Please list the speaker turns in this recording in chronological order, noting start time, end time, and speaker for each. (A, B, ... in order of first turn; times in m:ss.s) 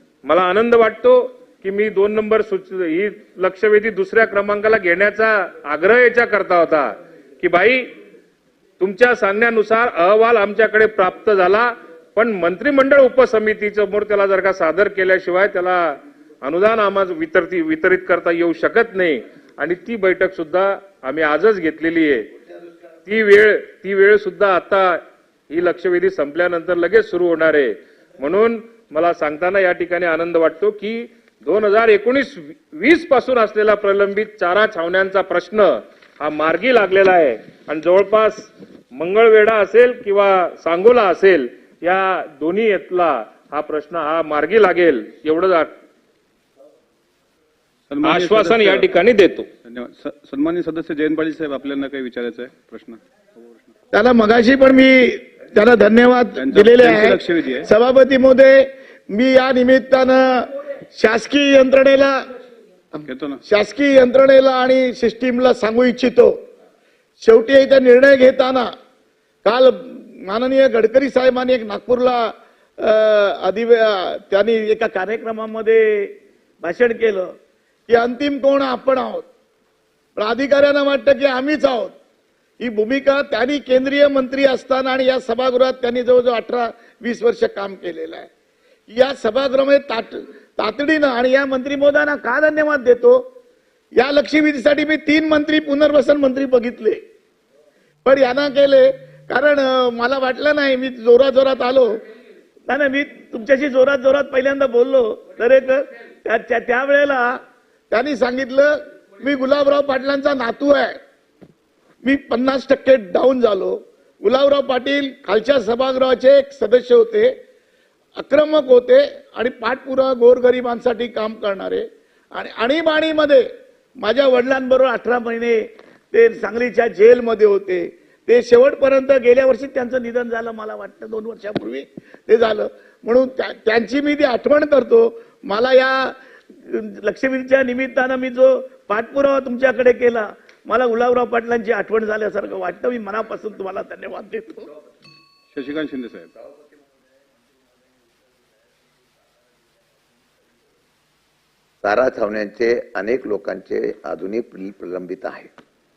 0:00.2-0:07.8 A
0:08.8-0:22.3 A
0:23.1-0:45.7 A
0:47.9-0:48.9 B
0:48.0-0:49.5 A
0:49.6-0:53.6 B
0:53.9-1:02.2 C
0:56.4-0:57.7 B
1:03.0-1:03.4 B
1:03.5-1:06.3 C
1:07.2-1:08.7 C
1:09.4-1:16.1 C
1:16.6-1:17.3 C
1:17.9-1:19.3 C
1:20.2-1:22.0 C
1:22.6-1:28.3 C
1:28.9-1:33.2 C
1:34.0-1:37.0 C
1:38.0-1:42.0 C
1:42.7-1:47.4 C
1:47.9-1:51.0 C
1:52.0-1:57.3 C
1:58.2-2:03.4 C
2:04.0-2:05.6 C
2:06.1-2:16.2 C
2:16.7-2:24.7 C
2:25.5-2:26.3 B
2:31.8-2:35.5 D